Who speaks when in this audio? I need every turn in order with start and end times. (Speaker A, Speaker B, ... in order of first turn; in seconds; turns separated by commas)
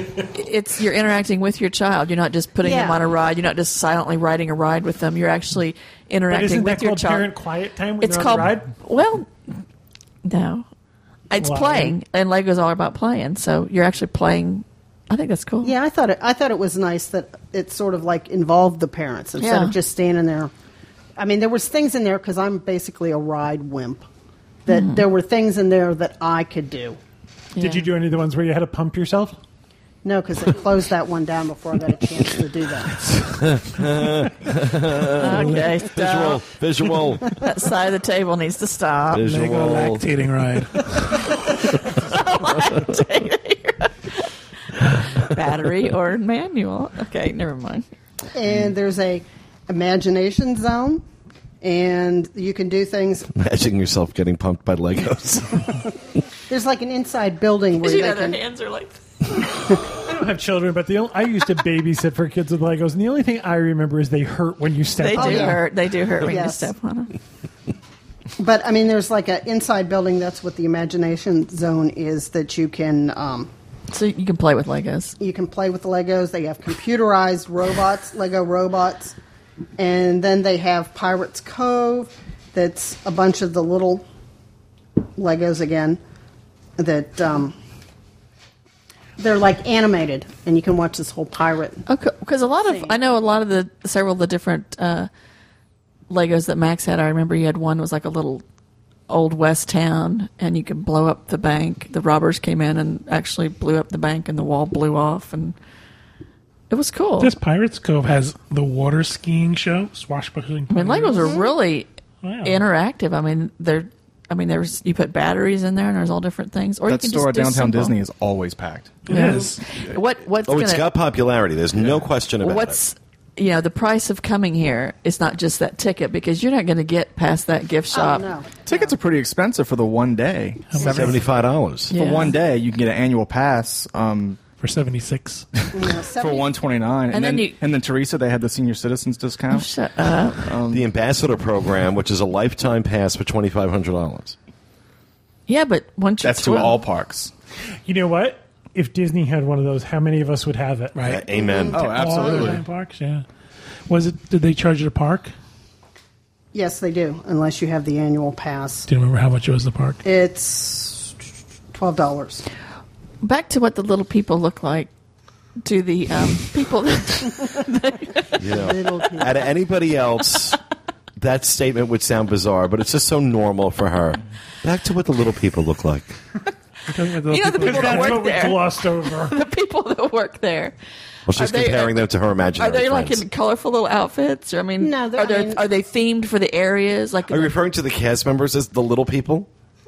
Speaker A: 0.3-7.3, Speaker B: 2.6-3.0, Speaker C: 6.3-8.7, Speaker A: 8.0-9.3, Speaker A: 10.2-10.7, Speaker A: 11.3-15.7, Speaker C: 11.3-11.9, Speaker B: 15.6-20.5, Speaker A: 19.4-19.7, Speaker B: 21.2-24.0, Speaker B: 24.6-27.0, Speaker A: 24.7-25.0, Speaker A: 27.5-27.9, Speaker C: 27.6-29.4, Speaker B: 30.0-33.0, Speaker D: 33.1-37.3, Speaker A: 35.1-36.4, Speaker A: 37.3-39.3, Speaker D: 39.1-40.0, Speaker E: 39.3-41.1, Speaker A: 41.5-44.3, Speaker A: 45.2-47.8, Speaker B: 48.3-51.0, Speaker B: 51.6-53.3, Speaker D: 53.3-55.9, Speaker B: 56.5-58.4, Speaker A: 57.8-59.0, Speaker C: 60.0-65.6, Speaker A: 65.0-67.1, Speaker B: 65.1-65.6, Speaker B: 66.2-66.7, Speaker B: 68.4-73.5, Speaker A: 73.9-75.2, Speaker B: 75.2-79.2, Speaker B: 79.8-84.0, Speaker B: 85.2-86.0, Speaker B: 86.8-87.5, Speaker B: 89.2-91.8, Speaker A: 91.9-95.1, Speaker B: 92.7-93.0, Speaker A: 96.1-98.4, Speaker A: 99.1-105.5, Speaker A: 106.7-107.3, Speaker E: 107.2-111.3, Speaker A: 110.7-111.9, Speaker B: 111.1-111.5, Speaker E: 112.2-112.6, Speaker A: 112.4-117.9, Speaker F: 116.8-120.0, Speaker E: 119.1-119.5, Speaker A: 119.1-120.9, Speaker D: 120.5-122.8, Speaker F: 121.8-122.1, Speaker A: 122.4-128.3, Speaker B: 127.9-128.9, Speaker F: 128.7-131.2, Speaker E: 130.7-131.2, Speaker D: 130.8-131.9, Speaker F: 131.9-134.4, Speaker A: 131.9-132.3, Speaker E: 134.6-135.4, Speaker B: 135.7-136.5, Speaker F: 135.7-139.7, Speaker A: 137.1-137.6, Speaker A: 139.5-140.5, Speaker F: 140.4-140.9, Speaker D: 140.7-144.3, Speaker A: 145.5-146.8, Speaker F: 146.2-147.3, Speaker C: 147.8-151.1, Speaker E: 150.9-151.2, Speaker D: 151.0-151.8, Speaker B: 151.3-152.6, Speaker F: 151.7-152.6, Speaker E: 151.8-153.2, Speaker E: 153.9-155.3, Speaker B: 156.5-158.9, Speaker E: 158.9-160.0, Speaker B: 160.0-161.1, Speaker B: 161.7-162.4, Speaker A: 163.2-164.9, Speaker A: 165.6-168.4, Speaker D: 168.4-170.6, Speaker B: 168.4-169.4, Speaker D: 171.2-176.1, Speaker E: 176.9-178.3, Speaker A: 177.3-180.7, Speaker C: 177.6-179.4, Speaker D: 181.3-183.2, Speaker A: 181.3-182.1, Speaker A: 182.6-187.5, Speaker B: 184.8-185.6, Speaker D: 187.3-189.5